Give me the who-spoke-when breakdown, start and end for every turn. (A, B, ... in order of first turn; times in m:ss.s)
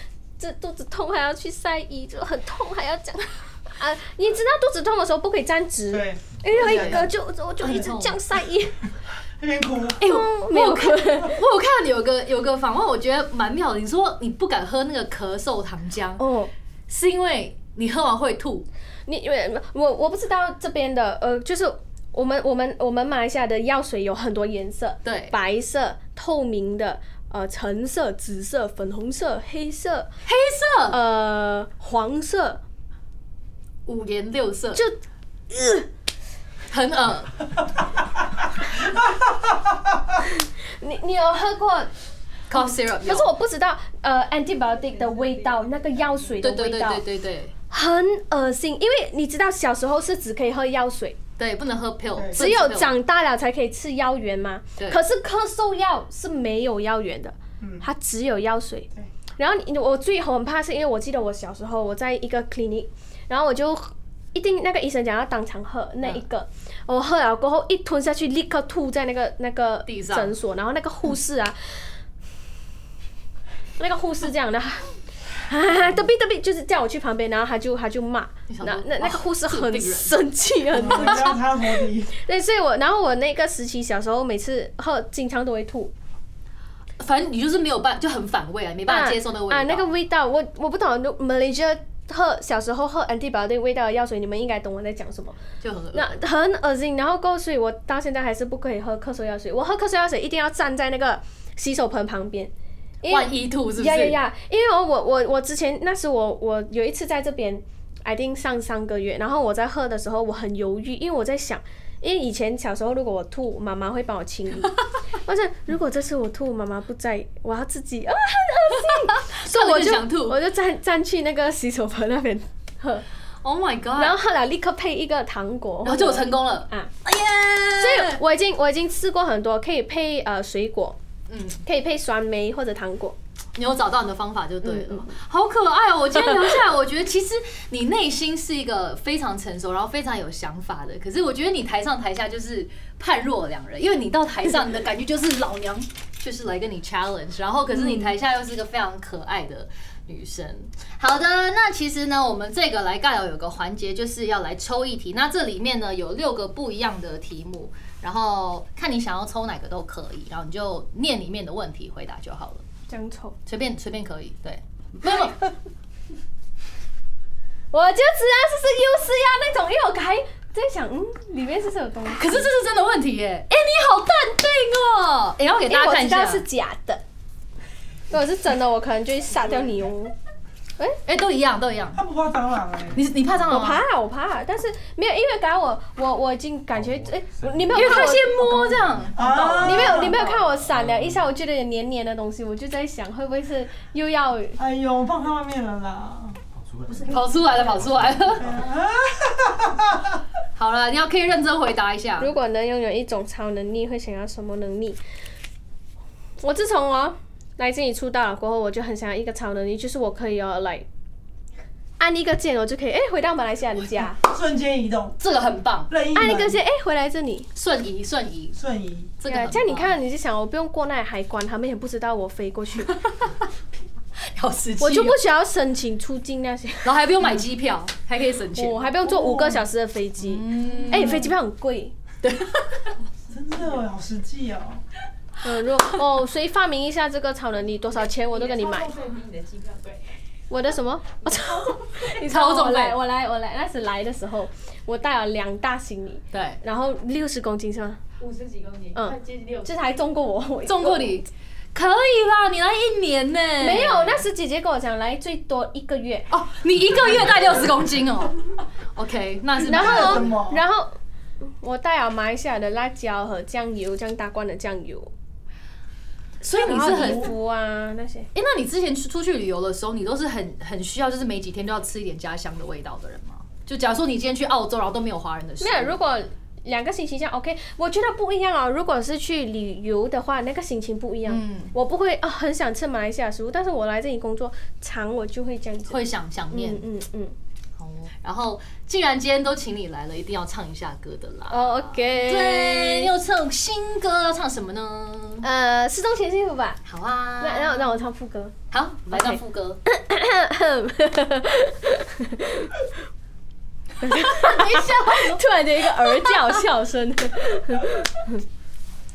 0:00.4-0:08.8 A
0:05.9-0:07.1 B
0:06.5-0:07.1 C
0:07.6-0:08.2 C
0:09.4-0:10.0 B
0:10.0-0:16.2 C
0:10.0-0:11.4 A
0:16.2-0:16.5 A
0:16.9-0:18.7 C
0:19.1-0:30.1 A
0:25.0-0:25.3 C
0:30.2-0:31.0 C
0:30.9-0:32.6 A
0:33.8-0:34.8 C
0:34.8-0:35.9 A
0:36.7-0:37.4 C
0:40.8-0:41.9 A
0:42.5-0:43.3 C
0:43.0-0:47.0 A
0:45.0-0:46.3 D
0:46.4-0:47.5 C
0:47.7-0:51.2 A
0:51.4-0:53.0 C
0:52.3-1:11.8 A
1:09.8-1:10.3 C
1:13.8-1:21.4 A
1:18.5-1:20.2 C
1:20.7-1:22.1 B
1:20.9-1:21.2 C
1:22.1-1:25.9 A
1:27.0-1:29.9 C
1:28.9-1:35.4 A
1:35.6-1:36.2 C
1:35.9-2:03.0 A
1:43.1-1:44.2 C
1:58.9-2:00.4 C
2:03.4-2:04.2 C
2:04.0-2:06.9 A
2:05.8-2:08.2 C
2:07.8-2:11.0 A
2:11.3-2:11.6 C
2:11.6-2:13.2 A
2:13.5-2:42.6 C
2:14.6-2:15.1 A
2:27.7-2:28.1 A
2:42.9-2:43.4 A
2:43.4-2:45.4 C
2:47.7-2:52.5 A
2:52.1-2:56.4 C
2:55.6-2:57.0 A
2:58.1-3:00.1 A
3:01.0-3:02.0 C
3:01.9-3:03.0 B
3:02.9-3:03.8 C
3:03.5-3:08.8 A
3:07.7-3:10.6 C
3:09.1-3:10.2 B
3:09.5-3:14.6 A
3:14.6-3:16.4 B
3:17.0-3:18.5 C
3:18.4-3:20.0 B
3:20.6-3:22.3 C
3:22.2-3:25.0 A
3:26.4-3:30.9 A
3:32.0-3:34.2 A
3:34.0-3:35.2 B
3:35.2-3:35.9 C
3:35.9-3:36.6 B
3:36.1-3:37.5 A
3:37.5-3:38.6 C
3:38.5-3:39.1 B
3:39.2-3:39.9 C
3:39.3-3:43.0 A
3:42.8-3:43.5 C
3:44.2-3:45.2 C
3:44.8-3:46.9 A
3:46.8-3:48.9 C
3:48.6-3:51.9 A
3:49.0-3:49.6 B
3:50.2-3:51.3 C
3:52.2-3:53.0 C
3:53.3-3:54.8 B
3:55.4-3:58.9 A
3:58.2-4:00.2 D
4:00.5-4:08.0 A
4:01.3-4:01.8 D
4:02.2-4:03.0 C
4:06.3-4:06.6 C
4:08.2-4:09.7 D
4:08.9-4:11.2 A
4:10.6-4:14.2 C
4:13.6-4:16.3 A
4:16.3-4:20.3 C
4:19.6-4:25.1 A
4:19.6-4:20.6 B
4:26.4-4:27.3 C
4:26.6-4:28.3 A
4:28.3-4:36.0 C
4:35.6-4:47.3 A
4:41.2-4:41.7 C
4:45.9-4:46.8 C
4:47.8-4:55.4 C
4:51.5-4:53.1 A
4:55.4-4:56.8 A
4:56.8-4:58.0 C
4:57.4-4:58.6 A
4:58.7-4:59.8 C
4:59.1-5:02.9 A
5:04.0-5:06.6 C
5:04.0-5:08.4 A